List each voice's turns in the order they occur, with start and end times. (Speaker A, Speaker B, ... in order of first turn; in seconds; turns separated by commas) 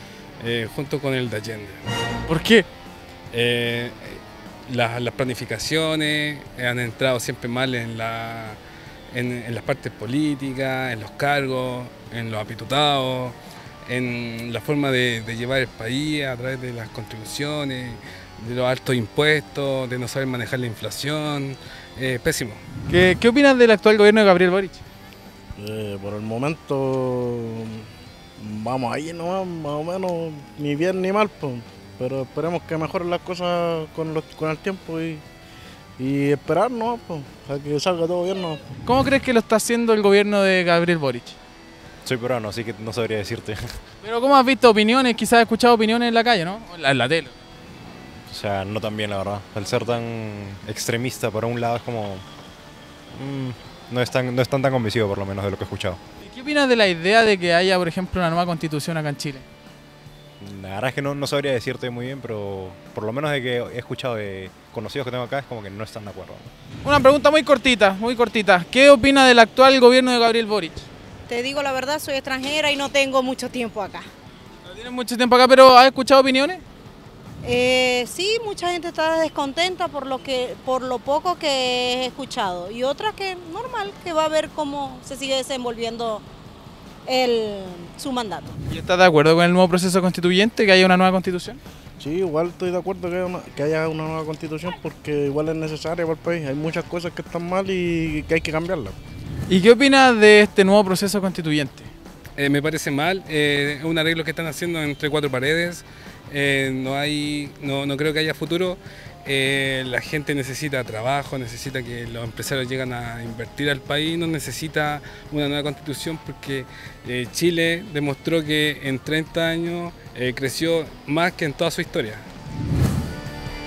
Speaker A: 0.4-1.8, Speaker B: 2.3-2.7, Speaker A: 3.3-8.6, Speaker A: 9.1-22.6, Speaker B: 22.9-24.8, Speaker C: 25.6-27.9, Speaker C: 28.4-35.2, Speaker C: 36.0-38.6, Speaker B: 38.9-41.4, Speaker D: 42.0-43.8, Speaker B: 44.0-47.3, Speaker D: 48.3-52.2, Speaker D: 53.1-56.0, Speaker B: 56.2-59.4, Speaker D: 60.4-66.5, Speaker B: 66.8-70.9, Speaker E: 71.3-74.1, Speaker B: 74.7-76.6, Speaker E: 77.4-86.2, Speaker E: 87.1-88.5, Speaker B: 88.7-91.6, Speaker C: 92.0-99.0, Speaker B: 99.5-101.9, Speaker A: 102.4-122.3